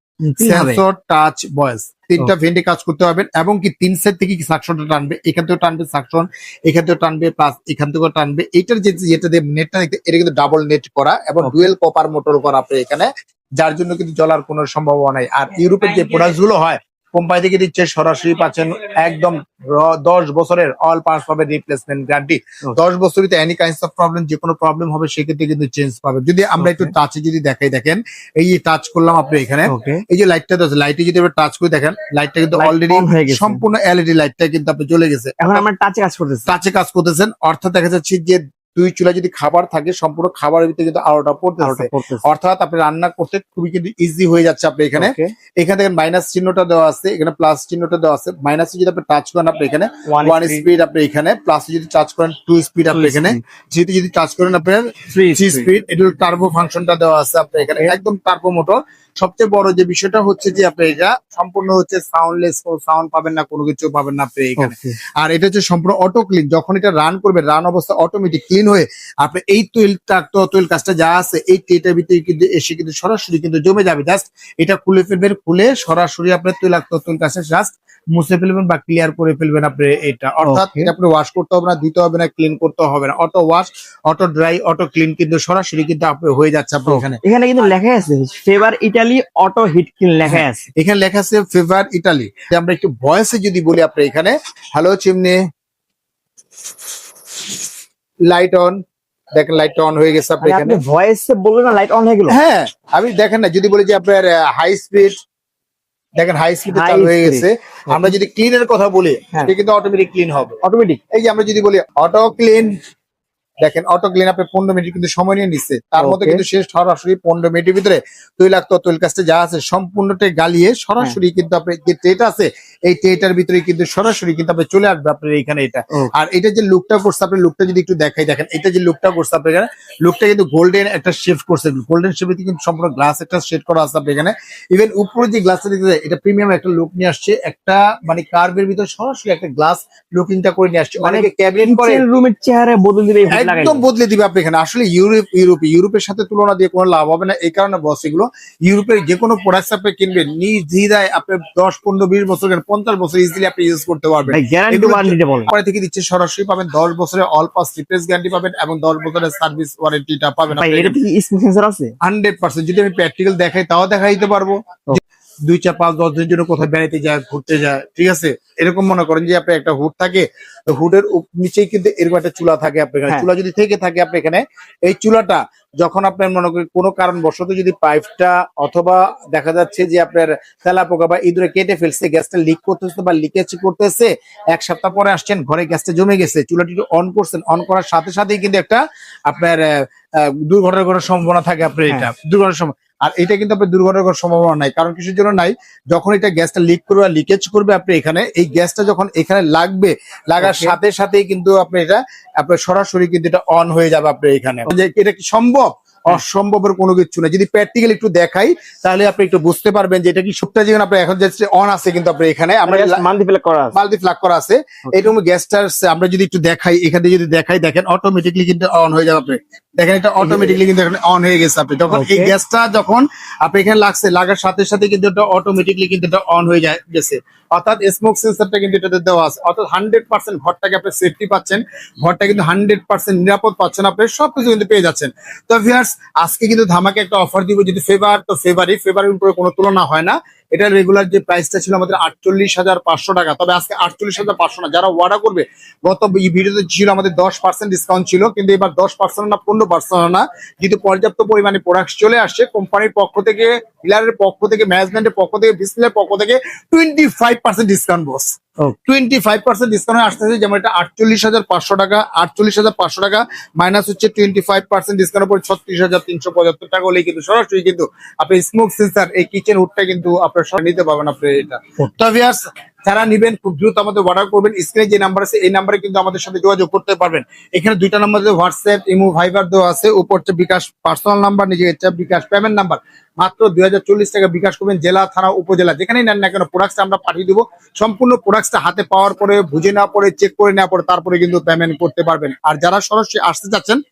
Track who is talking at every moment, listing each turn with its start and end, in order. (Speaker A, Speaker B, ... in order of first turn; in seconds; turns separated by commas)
Speaker A: 0.2-0.8, Speaker B: 0.4-35.6, Speaker A: 11.4-11.7, Speaker A: 26.6-26.9, Speaker A: 29.6-30.0, Speaker A: 32.6-33.6, Speaker A: 35.4-36.5, Speaker B: 36.5-87.2, Speaker A: 41.6-42.2, Speaker A: 45.0-45.3, Speaker A: 50.1-50.6, Speaker A: 52.9-53.4, Speaker A: 55.1-55.7, Speaker A: 64.6-65.0, Speaker A: 80.4-80.9, Speaker A: 86.9-90.6, Speaker B: 90.3-95.4, Speaker B: 98.3-98.8, Speaker B: 99.3-100.8, Speaker A: 100.4-102.4, Speaker B: 102.3-105.2, Speaker B: 106.2-110.5, Speaker A: 106.7-108.1, Speaker A: 110.6-111.0, Speaker B: 111.1-112.7, Speaker B: 113.6-142.0, Speaker A: 116.0-116.4, Speaker A: 141.0-143.8, Speaker B: 143.3-161.0, Speaker A: 154.3-155.5, Speaker A: 160.5-161.9, Speaker B: 162.0-189.7, Speaker B: 190.2-213.0, Speaker A: 200.4-200.8, Speaker A: 212.7-213.8, Speaker B: 213.7-258.3, Speaker A: 220.2-220.6, Speaker A: 221.9-222.3, Speaker B: 258.8-293.8